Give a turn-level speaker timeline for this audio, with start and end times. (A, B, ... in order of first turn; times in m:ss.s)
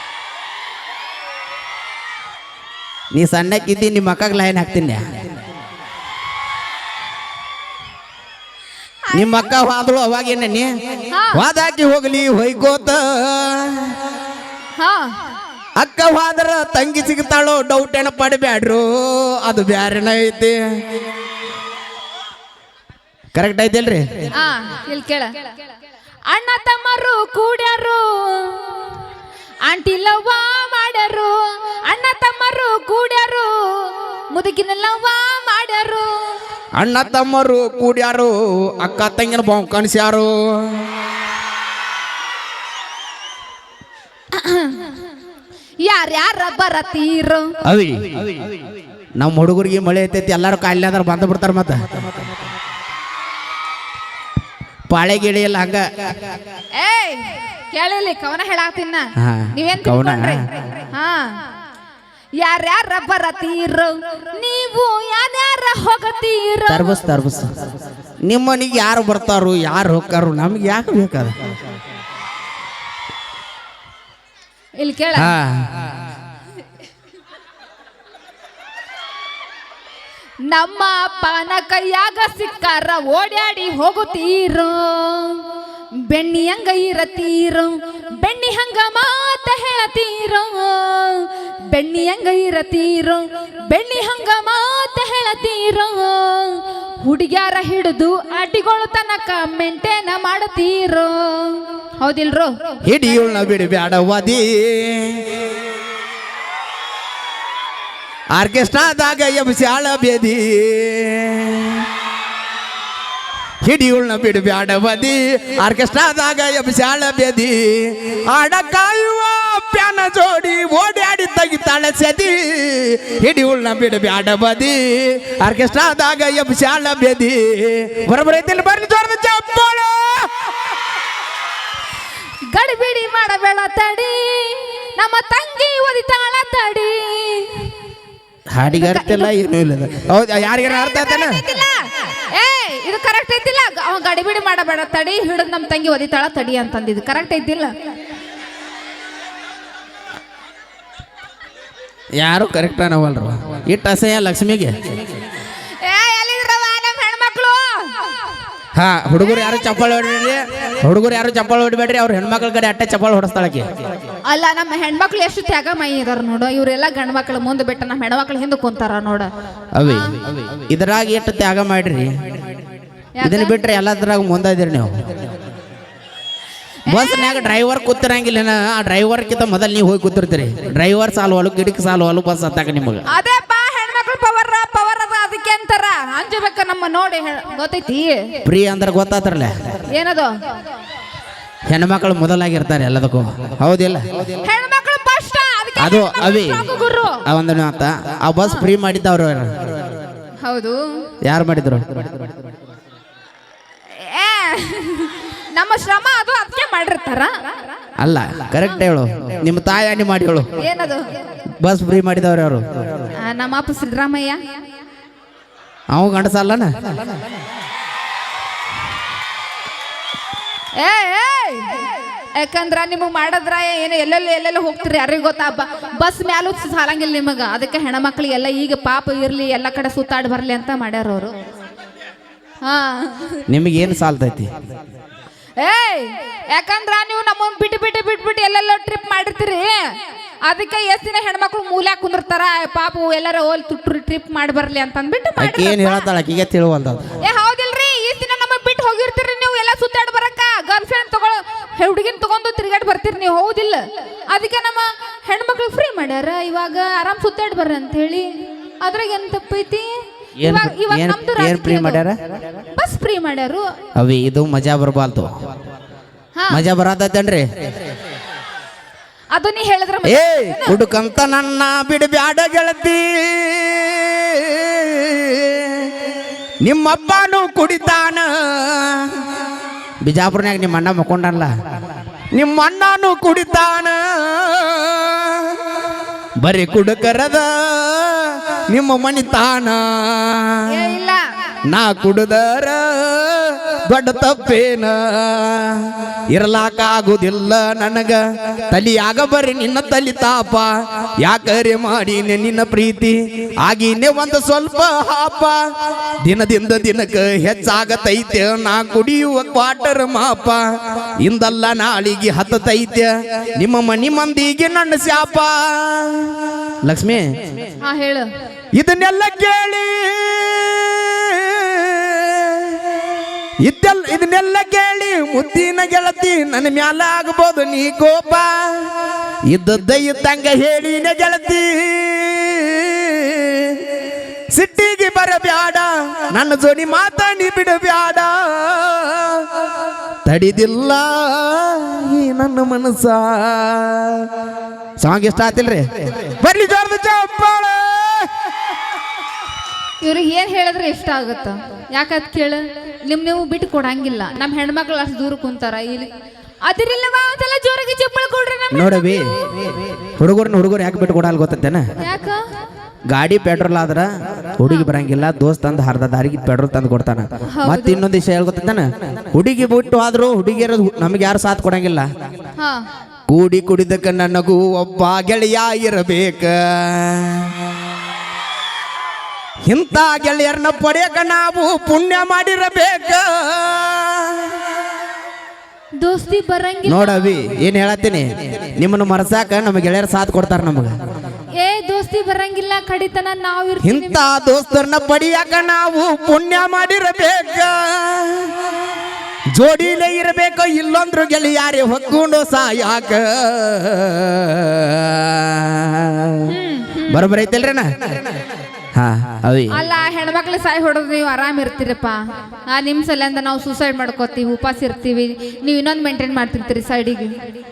0:03.1-0:05.0 A
0:09.1-0:09.5 B
0:09.1-0:10.7 A
0:11.1-0:11.4 B
0:11.3-0:14.0 A
0:14.8-0:15.1 B
0:15.8-0:20.6 A
0:23.4-0:24.1 A
0:24.3-0:25.5 B
0:26.3-0:29.0 B
0:29.7-0:36.4 B
0:36.8-0:40.9 A
0:44.3-0:45.0 B
0:45.8-0:47.6 B
0:47.6-0:48.2 A
0:49.2-0:51.9 A
0:54.9-0:55.8 A
0:56.7-1:01.4 B
0:59.2-1:00.4 A
1:02.4-1:07.0 B
1:06.7-1:07.5 A
1:08.3-1:11.3 A
1:14.8-1:15.4 B
1:15.2-1:15.8 A
1:20.5-1:25.5 B
1:26.0-1:42.6 B
1:42.8-1:45.4 A
1:48.4-1:51.9 A
1:53.6-2:10.3 A
2:12.5-2:17.7 B
2:18.5-2:21.4 A
2:18.7-2:19.3 B
2:20.6-2:27.7 B
2:32.2-2:34.7 A
2:35.7-2:38.1 B
2:38.8-2:43.7 A
2:44.2-2:49.3 B
2:49.8-2:52.1 A
2:49.8-2:50.2 B
2:53.2-2:53.7 B
2:53.2-2:54.9 A
2:56.9-2:57.5 B
2:56.9-3:03.0 A
3:03.1-3:08.4 B
3:08.4-3:09.5 A
3:09.9-3:10.4 B
3:11.7-3:14.0 A
3:14.4-3:17.2 B
3:15.8-3:16.6 A
3:17.2-3:19.5 A
3:20.4-3:20.8 B
3:21.2-3:22.1 A
3:23.9-3:27.8 B
3:28.0-3:30.5 A
3:30.6-3:31.1 B
3:31.6-3:32.6 A
3:33.2-3:34.4 B
3:35.9-3:37.0 A
3:40.8-3:51.3 B
3:52.6-3:53.4 B
3:53.5-3:54.5 A
3:55.6-3:59.8 B
4:00.4-4:06.1 B
4:05.4-4:07.1 A
4:07.2-4:18.3 B
4:18.8-4:19.9 B
4:20.4-4:22.2 A
4:20.4-4:22.0 B
4:22.8-4:23.7 B
4:24.0-4:25.3 A
4:26.4-4:26.6 B
4:26.5-4:27.4 A
4:29.3-4:30.8 B
4:30.0-4:35.9 A
4:36.6-4:39.2 A
4:40.0-4:41.5 A
4:42.3-4:45.6 A
4:46.4-4:50.7 A
4:50.7-4:51.2 B
4:51.7-5:05.6 A
5:06.2-5:10.6 A
5:11.2-5:17.2 A
5:17.8-5:18.3 B
5:18.8-5:23.1 A
5:23.6-5:28.9 A
5:29.5-5:33.9 A
5:34.5-5:39.5 A
5:40.3-5:44.3 A
5:45.0-5:48.3 A
5:50.0-5:56.1 B
5:56.6-5:59.6 B
5:58.7-6:01.8 A
6:02.0-6:02.4 B
6:03.1-6:12.1 A
6:04.6-6:04.9 B
6:07.5-6:08.0 B
6:12.6-6:12.8 B
6:13.3-6:17.6 A
6:19.7-6:24.6 A
6:26.0-6:27.4 B
6:26.9-6:30.9 A
6:31.6-6:34.2 B
6:33.8-6:38.5 A
6:39.5-6:46.5 A
6:46.5-6:47.2 B
6:47.1-6:47.9 A
6:49.0-6:49.8 A
6:49.7-6:57.4 B